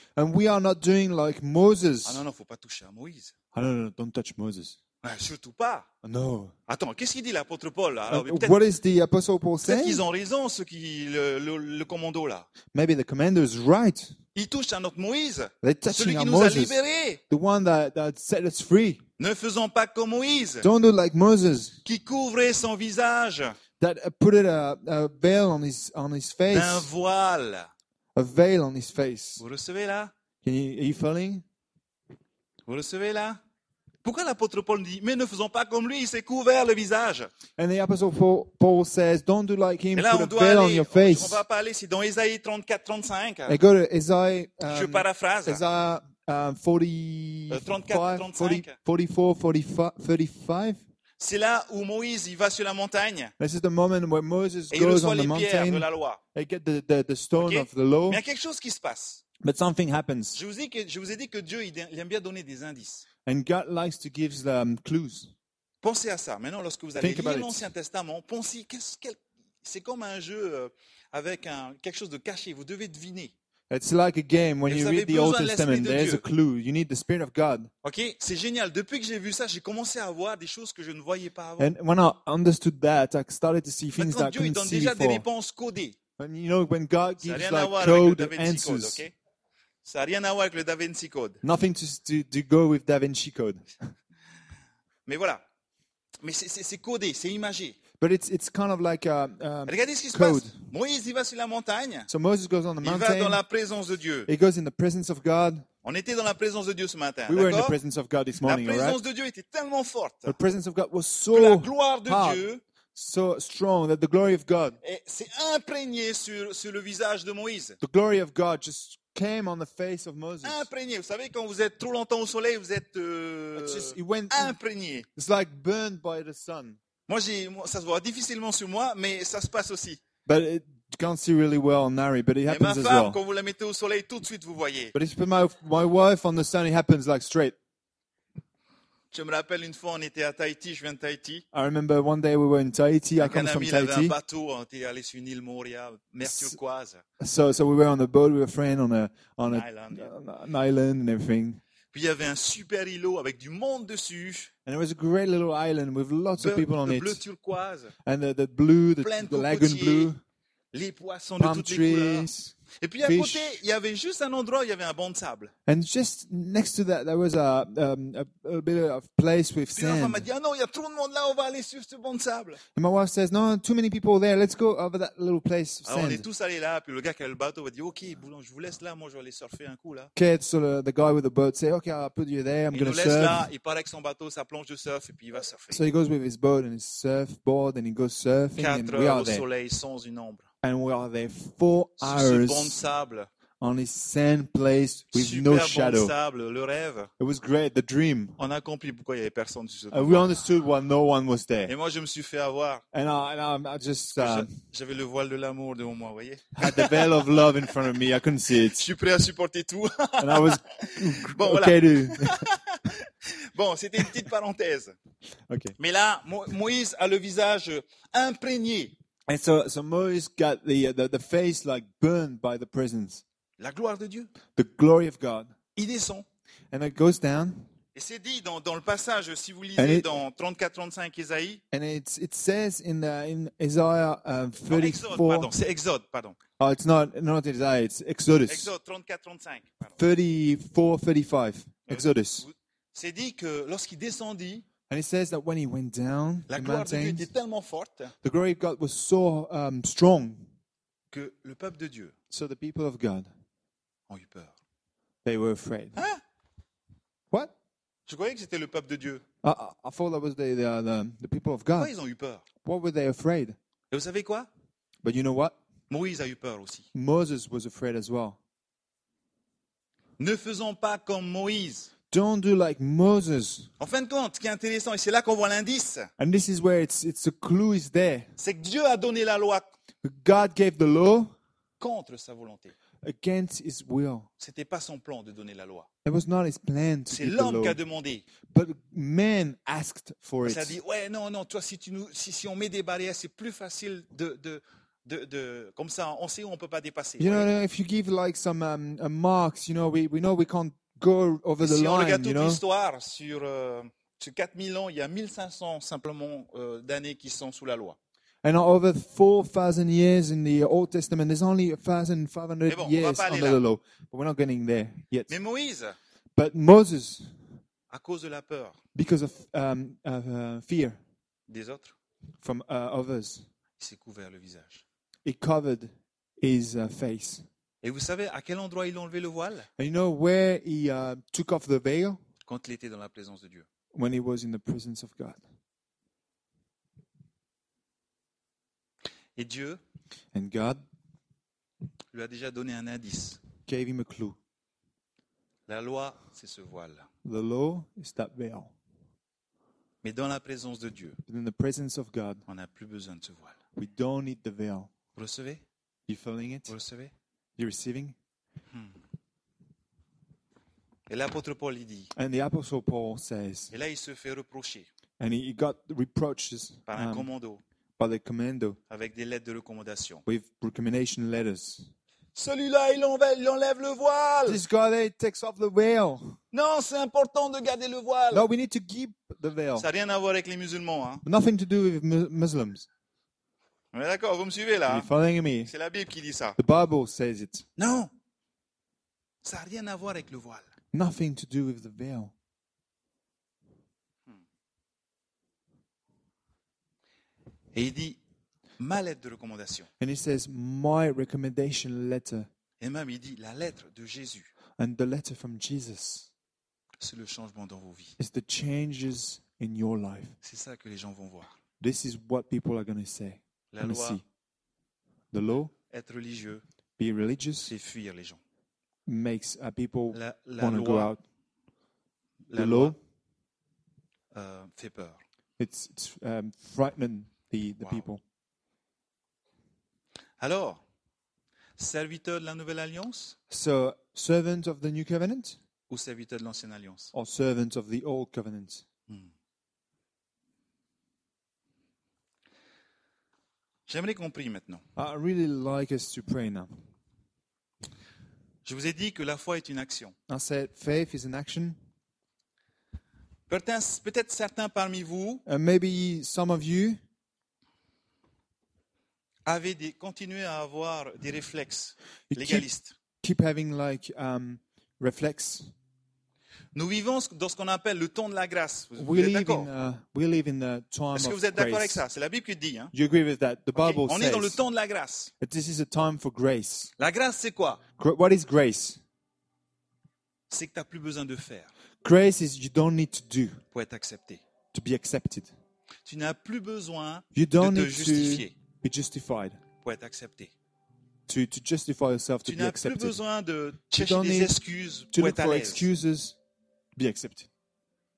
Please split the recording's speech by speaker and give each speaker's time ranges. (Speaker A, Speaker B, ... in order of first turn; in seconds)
Speaker A: 0.1-2.2, 3.5-4.8, 6.0-6.5, 8.1-10.0, 12.7-14.2, 15.6-19.0, 20.6-21.8, 23.8-26.9, 28.1-29.4, 30.4-31.4, 37.6-41.4, 43.5-50.8, 53.4-58.2, 59.4-60.4, 63.2-65.3, 67.0-67.7, 73.7-77.7, 81.6-85.2, 86.2-89.0, 91.4-93.7, 98.0-100.6, 102.1-103.4, 104.3-105.6, 107.3-109.0, 110.3-112.4, 112.9-114.8, 117.8-120.7, 123.5-124.5, 125.2-126.8, 130.2-133.2, 134.9-137.6, 141.5-144.1, 146.2-146.6, 147.2-151.6, 154.7-157.2, 158.0-160.2, 161.4-163.6, 165.7-170.3, 172.7-176.2, 180.2-183.5, 185.7-189.4, 190.6-192.8, 193.6-196.1, 197.2-198.4, 199.9-201.7, 202.9-204.5, 206.5-208.9, 210.2-212.4, 215.5-215.8, 219.3-223.2, 224.5-225.5, 226.7-227.6, 229.8-230.1, 231.7-235.5, 236.6-238.7, 240.0-242.4, 244.9-247.3, 248.2-250.5, 252.3-253.3, 255.2-256.0, 259.4-261.9, 262.6-263.6, 265.0-265.5, 266.9-268.4, 272.1-273.7, 276.2-278.3, 280.0-281.3, 283.0-284.3, 286.0-287.8, 288.5-290.8, 297.2-302.6, 308.4-315.3, 316.3-317.3, 318.9-321.0, 322.4-323.4, 325.2-327.4, 329.8-332.2, 333.9-335.4, 340.3-340.8, 343.7-344.4, 347.2-348.7, 351.3-352.4, 353.8-354.9, 356.1-356.7, 357.6-358.1, 362.1-363.7, 365.2-367.3, 368.0-368.8, 370.2-371.9, 374.4-376.4, 378.3-379.9, 381.2-382.9, 384.9-385.7, 386.6-387.6, 390.9-392.3, 400.0-402.5, 404.8-406.3, 408.2-410.4, 411.8-414.2, 415.3-415.7, 417.0-417.7, 419.1-421.2, 422.5-423.0, 425.6-428.2, 433.5-435.6, 437.1-438.8, 444.9-446.7, 450.3-451.8, 455.4-457.0, 462.3-462.7, 463.2-465.7, 468.9-472.0, 472.9-474.6, 475.4-476.9, 478.0-479.0, 482.0-483.6, 484.7-485.5, 487.3-489.6, 491.3-493.2, 493.9-494.6, 495.1-496.4, 496.9-497.5
Speaker B: 2.0-3.3, 5.0-5.9, 6.7-8.6, 9.6-12.5, 14.3-17.2, 19.2-20.7, 21.8-23.6, 26.5-27.7, 29.4-30.1, 32.7-33.4, 34.0-37.3, 39.9-43.6, 44.7-45.6, 47.5-48.8, 51.2-53.3, 54.7-56.2, 57.4-59.2, 60.3-63.0, 65.8-73.3, 74.7-76.2, 77.8-81.7, 84.0-86.0, 87.2-89.1, 89.8-91.4, 95.0-95.4, 96.2-97.8, 99.7-102.1, 102.8-104.3, 105.8-107.8, 108.4-110.4, 111.3-112.6, 114.8-117.8, 120.4-125.1, 127.1-130.0, 132.4-134.9, 139.1-141.4, 143.2-147.0, 149.5-150.1, 151.9-154.5, 156.4-157.9, 159.0-160.1, 160.7-162.3, 162.8-165.5, 169.7-172.6, 175.8-180.1, 182.7-185.8, 188.6-190.5, 192.0-193.3, 195.1-197.1, 198.4-200.3, 201.7-202.8, 204.1-207.8, 208.5-214.9, 215.8-218.9, 223.6-224.3, 225.8-226.2, 227.9-231.6, 234.7-236.4, 238.5-239.9, 241.9-244.6, 246.5-248.1, 251.1-252.1, 254.1-254.5, 255.9-256.2, 258.1-259.2, 261.8-262.4, 263.9-264.5, 265.9-266.9, 270.2-271.9, 273.8-276.1, 278.4-279.6, 281.8-282.7, 284.4-285.9, 287.1-288.2, 290.4-297.5, 301.6-308.0, 312.7-313.6, 315.3-315.9, 317.9-318.8, 321.5-321.9, 323.8-324.8, 327.8-329.7, 332.5-333.7, 339.4-339.8, 342.1-343.4, 345.7-347.1, 350.0-351.2, 352.5-353.6, 355.1-355.6, 356.7-357.1, 361.1-362.1, 363.7-364.9, 366.9-367.6, 368.9-370.2, 372.3-374.6, 376.5-378.4, 379.8-381.2, 383.9-385.1, 385.6-386.6, 387.8-388.1, 389.4-390.6, 397.7-398.2, 398.8-399.9, 402.8-404.5, 407.0-408.1, 410.4-411.5, 413.7-414.2, 415.9-416.6, 417.6-418.4, 420.1-421.1, 422.5-422.9, 424.3-425.2, 427.8-428.1, 430.4-430.8, 431.8-433.4, 435.9-437.1, 443.9-444.8, 448.6-450.1, 453.5-455.4, 459.4-462.9, 466.7-469.7, 471.1-472.9, 473.7-475.3, 477.0-477.8, 480.5-481.7, 483.7-484.4, 486.0-488.5, 489.8-490.5, 492.4-495.9